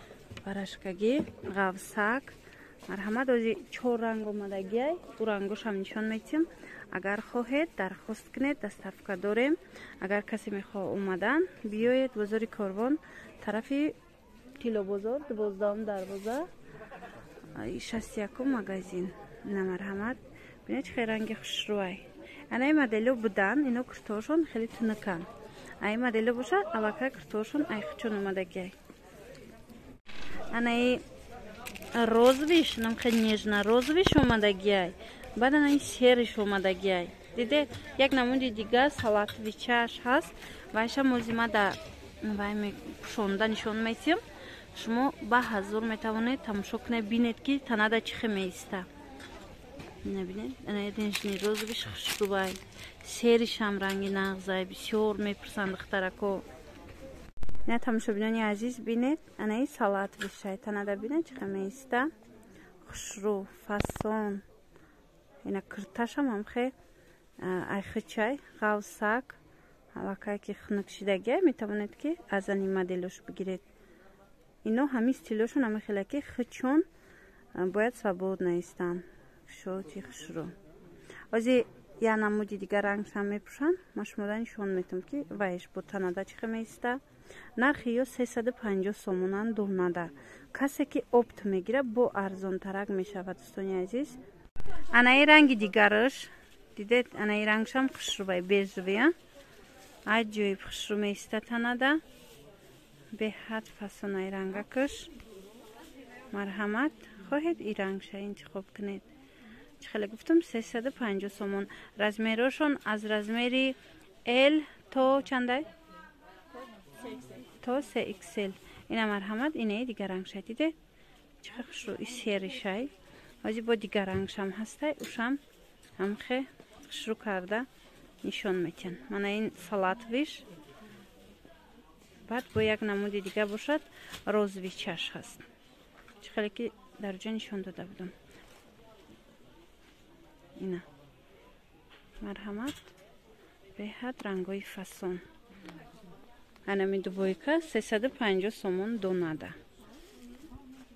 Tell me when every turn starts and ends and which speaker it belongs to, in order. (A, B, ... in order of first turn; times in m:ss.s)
0:00.4-0:02.3 A
0:02.9-0:14.0 A
0:14.6-0:16.5 A
0:17.5-0:25.3 A
0:25.8-0:28.7 A
0:30.5-0:31.0 A
0:31.9-0:44.2 A
0:44.7-0:48.9 A
0:50.0-0:56.4 A
0:57.7-1:02.1 A
1:02.8-1:04.4 A
1:05.4-1:06.7 A
1:07.4-1:09.4 A
1:09.9-1:13.6 A
1:14.6-1:16.8 A
1:17.5-1:20.5 A
1:21.3-1:27.0 A
1:27.6-1:34.2 A
1:34.9-1:39.1 A
1:40.1-1:42.0 A
1:43.1-1:45.1 A
1:46.3-1:49.1 A
1:49.8-1:55.7 A
1:57.6-2:00.7 A
2:01.4-2:02.9 A
2:03.4-2:05.4 A
2:06.0-2:07.7 A
2:08.2-2:10.4 A
2:12.3-2:15.4 A
2:16.2-2:18.1 A
2:20.6-2:20.8 A
2:22.2-2:22.9 A
2:23.8-2:25.2 A
2:26.6-2:29.6 A